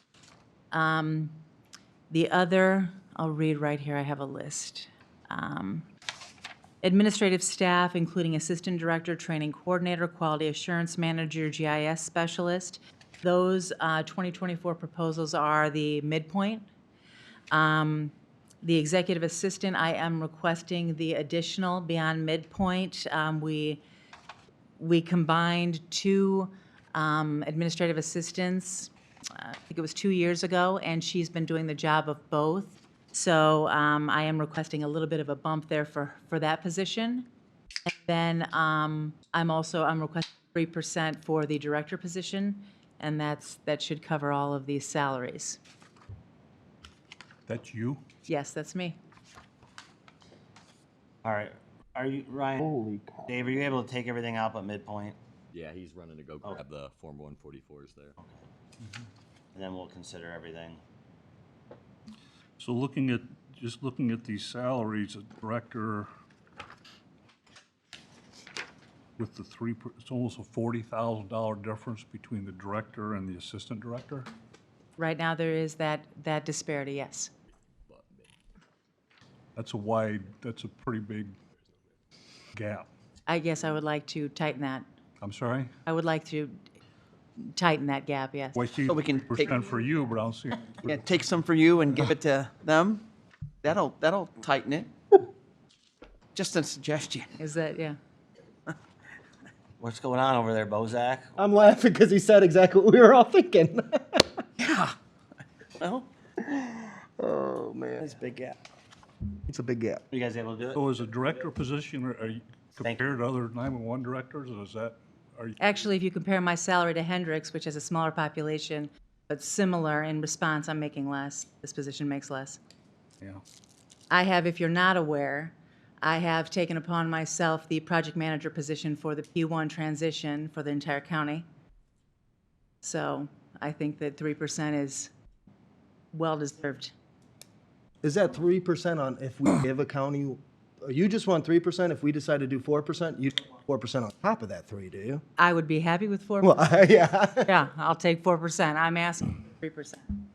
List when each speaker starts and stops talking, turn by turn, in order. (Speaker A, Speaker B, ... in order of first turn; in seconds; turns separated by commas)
Speaker A: 0.7-1.3, Speaker A: 2.1-5.9, Speaker A: 6.8-16.6, Speaker A: 17.5-23.8, Speaker A: 24.8-37.3, Speaker A: 37.9-45.6, Speaker B: 47.5-48.0, Speaker A: 48.3-49.0, Speaker C: 51.2-52.7, Speaker D: 52.6-53.2, Speaker C: 53.3-55.2, Speaker E: 55.5-58.2, Speaker C: 59.5-60.8, Speaker B: 62.6-66.1, Speaker B: 69.2-74.3, Speaker A: 75.0-77.3, Speaker E: 77.9-78.2, Speaker B: 79.6-81.4, Speaker B: 82.5-82.9, Speaker A: 83.3-84.9, Speaker B: 85.2-85.7, Speaker A: 85.9-86.6, Speaker A: 87.4-88.6, Speaker B: 88.5-91.0, Speaker F: 88.9-89.6, Speaker F: 90.9-93.1, Speaker F: 93.6-94.9, Speaker F: 96.3-97.3, Speaker A: 97.4-98.0, Speaker C: 99.8-101.4, Speaker D: 101.4-104.4, Speaker F: 104.6-105.0, Speaker D: 107.2-108.2, Speaker F: 108.2-108.5, Speaker D: 109.5-110.0, Speaker C: 110.1-110.9, Speaker B: 110.7-115.6, Speaker A: 115.6-122.6, Speaker A: 124.1-131.4, Speaker A: 132.8-135.1, Speaker A: 136.1-136.9, Speaker D: 138.0-145.2, Speaker A: 145.4-146.8, Speaker D: 146.4-147.5, Speaker A: 147.4-150.2